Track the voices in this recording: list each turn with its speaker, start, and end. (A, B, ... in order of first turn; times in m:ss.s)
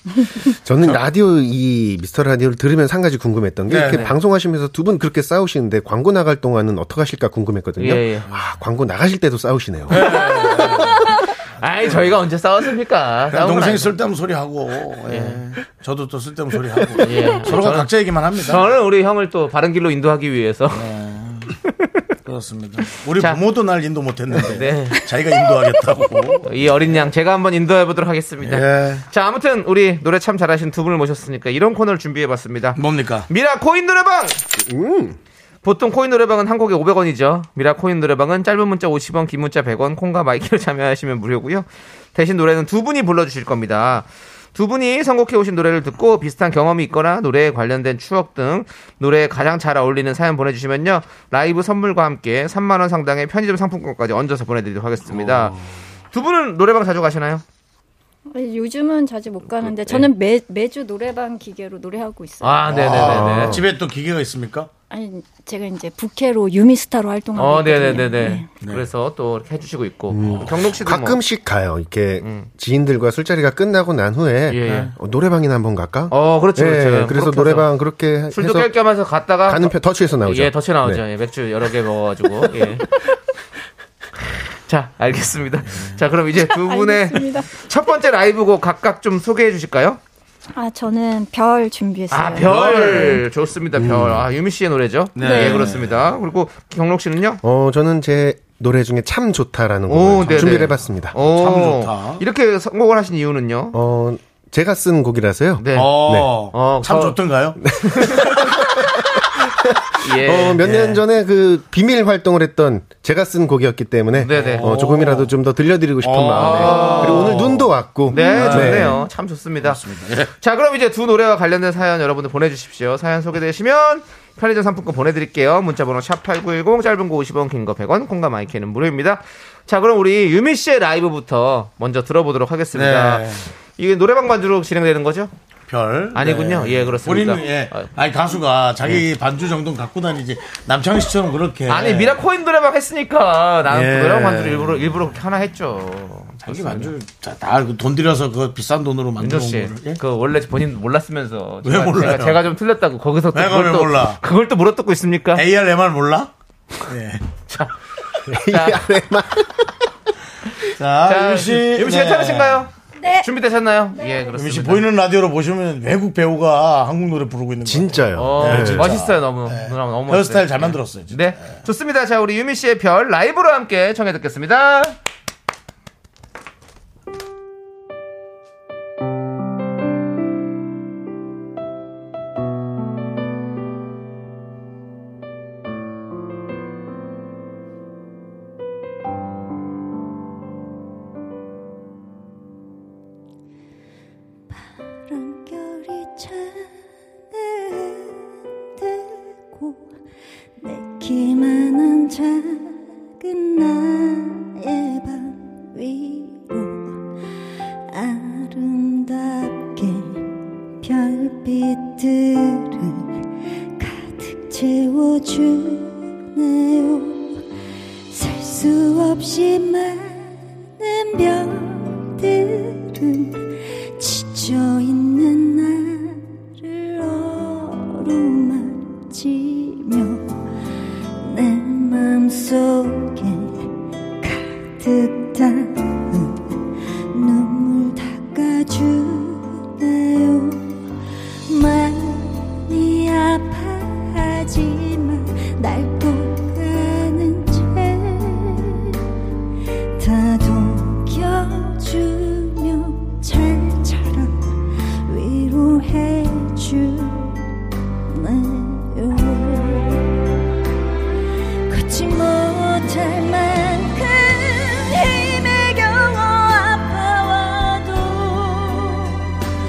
0:00.2-0:00.5 A
0:00.6-0:10.1 B
0:03.7-0:04.1 C
0:03.8-0:04.1 D
0:07.8-0:08.3 D
0:09.9-0:11.0 C
0:09.9-0:13.9 D
0:13.3-0:18.6 C
0:15.1-0:15.4 D
0:17.0-0:20.8 D
0:20.7-0:21.6 C
0:22.2-0:27.1 C
0:24.4-0:25.0 D
0:26.4-0:34.4 D
0:28.4-0:29.0 C
0:32.8-0:33.3 C
0:34.6-0:35.2 B
0:35.6-0:55.6 D
0:55.1-0:55.7 C
0:56.1-0:57.4 D
0:58.3-1:02.8 A
0:59.6-1:00.1 D
1:02.4-1:03.6 D
1:02.7-1:04.7 C
1:02.9-1:03.6 B
1:04.9-1:08.5 A
1:07.3-1:11.2 D
1:08.6-1:08.9 C
1:10.1-1:18.7 B
1:12.2-1:12.5 D
1:14.5-1:14.9 D
1:14.6-1:14.9 C
1:16.1-1:17.7 D
1:18.3-1:22.8 D
1:19.4-1:21.0 B
1:24.7-1:30.0 D
1:26.4-1:27.5 A
1:30.5-1:33.2 A
1:32.1-1:37.4 D
1:32.4-1:33.2 C
1:33.8-1:34.2 B
1:35.2-1:36.2 C
1:35.2-1:35.7 A
1:37.4-1:41.1 B
1:39.9-1:43.8 D
1:40.2-1:42.2 C
1:43.7-1:46.4 B
1:45.6-1:47.2 D
1:45.7-1:47.6 C
1:47.6-1:48.6 B
1:47.8-1:48.5 D
1:50.0-1:51.0 D
1:50.1-1:59.0 B
1:54.2-1:54.8 D
1:54.3-1:55.3 C
1:56.0-1:57.4 C
1:56.3-2:15.3 D
1:58.1-1:58.6 A
1:58.2-1:59.0 C
1:59.6-2:00.3 C
2:12.7-2:13.5 C
2:15.7-2:22.2 C
2:16.1-2:17.9 D
2:21.7-2:26.9 D
2:23.7-2:25.1 C
2:26.4-2:30.0 C
2:29.2-2:35.4 D
2:31.6-2:32.4 C
2:33.3-2:34.2 C
2:35.3-2:36.3 C
2:36.8-2:37.3 C
2:37.5-2:37.7 D
2:38.3-2:39.7 B
2:38.3-2:38.8 D
2:40.7-2:42.7 C
2:41.0-2:44.8 D
2:43.0-2:43.3 A
2:43.9-2:44.3 A
2:44.3-2:51.5 C
2:47.6-2:49.0 B
2:48.2-2:55.0 D
3:14.5-3:16.7 E
3:17.3-3:19.8 E
3:20.6-3:27.0 E
3:27.9-3:33.2 E
3:33.8-3:37.4 E
3:38.1-3:50.3 E
3:51.2-3:53.7 E
3:54.2-3:56.6 E
3:57.1-4:00.8 E
4:01.5-4:09.0 E
4:10.0-4:17.4 E
4:18.1-4:20.2 E
4:21.7-4:29.4 E